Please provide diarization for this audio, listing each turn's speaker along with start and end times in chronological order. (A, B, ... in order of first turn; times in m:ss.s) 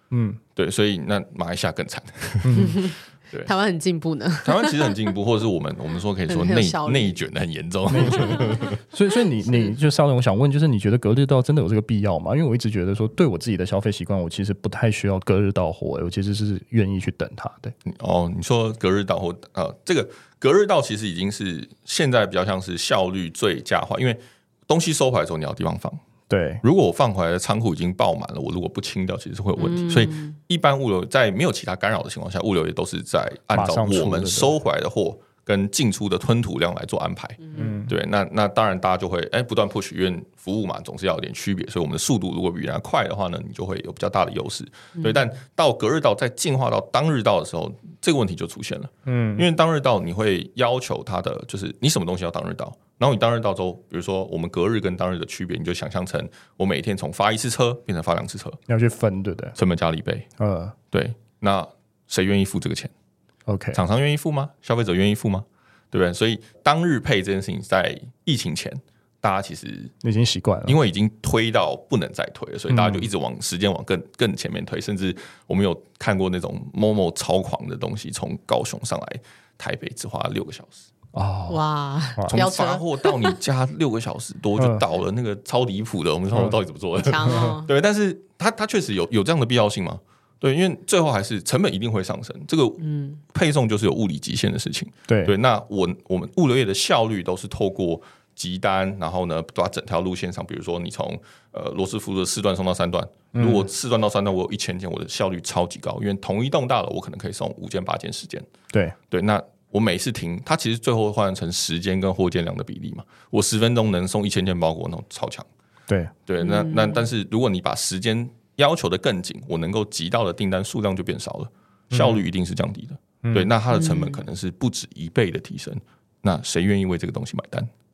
0:00.1-0:00.4 A
0:00.6-0:03.5 B
0:02.4-0:02.8 A
0:02.5-0:05.0 C
0:04.4-0:08.8 B
0:06.3-0:07.2 C
0:07.9-0:17.7 A
0:08.1-0:08.5 C
0:17.8-0:26.0 B
0:26.3-0:26.6 A
0:26.6-0:58.6 B
0:29.6-0:30.3 C
0:33.5-0:34.5 A
0:37.6-0:37.9 A
0:45.0-0:45.2 C
0:49.0-0:49.4 A
0:58.7-0:59.6 A
0:59.6-1:00.3 B
1:00.4-1:00.7 A
1:00.9-1:02.9 B
1:03.5-1:03.8 A
1:03.7-1:09.9 B
1:10.0-1:10.8 A
1:10.6-1:20.8 B
1:12.7-1:13.1 A
1:21.1-1:21.6 A
1:21.5-1:23.4 C
1:22.3-1:48.5 B
1:24.6-1:24.8 A
1:27.0-1:27.7 C
1:32.8-1:33.2 C
1:35.1-1:35.4 A
1:43.3-1:43.6 A
1:48.7-1:49.0 A
1:49.1-1:55.5 B
1:55.9-1:56.1 A
1:56.3-2:07.7 B
1:56.4-1:57.1 C
2:01.9-2:02.2 A
2:03.2-2:03.5 A
2:03.7-2:04.2 C